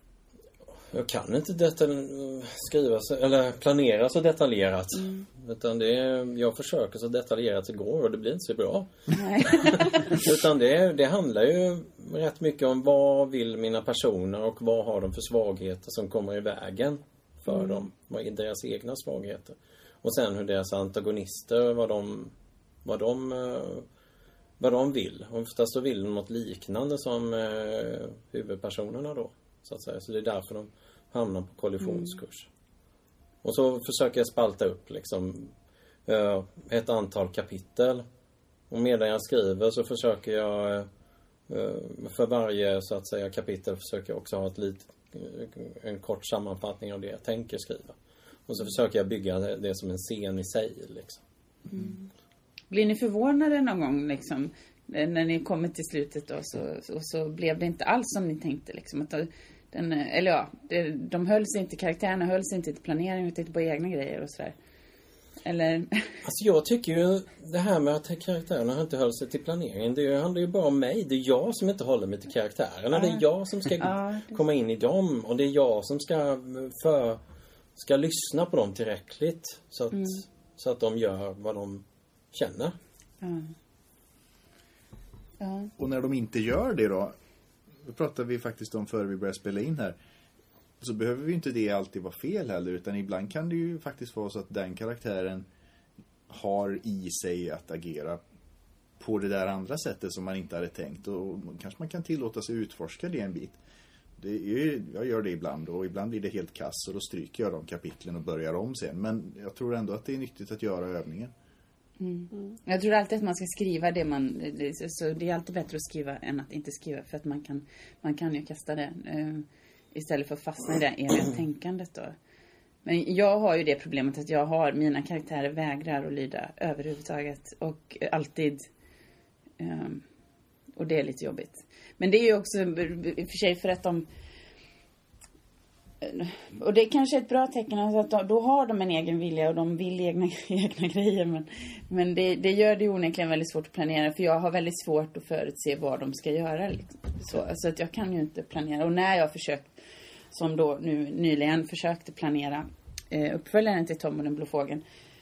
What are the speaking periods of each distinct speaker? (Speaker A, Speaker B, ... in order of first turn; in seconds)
Speaker A: 0.9-22.3, 22.8-23.9, 24.6-32.5, 33.4-35.5, 36.0-38.0, 38.7-40.9, 41.5-51.2, 66.2-77.2, 77.8-82.8
Speaker B: 5.0-5.2, 9.1-10.0, 17.5-17.9, 31.8-32.2, 51.7-52.1, 52.7-64.5, 65.4-66.2, 72.9-73.2, 73.8-74.4, 79.9-80.2, 83.2-83.5, 85.4-85.7, 112.0-122.1, 122.8-128.6, 129.6-130.0, 130.8-134.1, 136.0-149.8, 150.3-154.8
Speaker C: 85.8-87.1, 87.8-90.0, 90.8-95.5, 96.3-98.2, 99.0-103.6, 104.2-111.3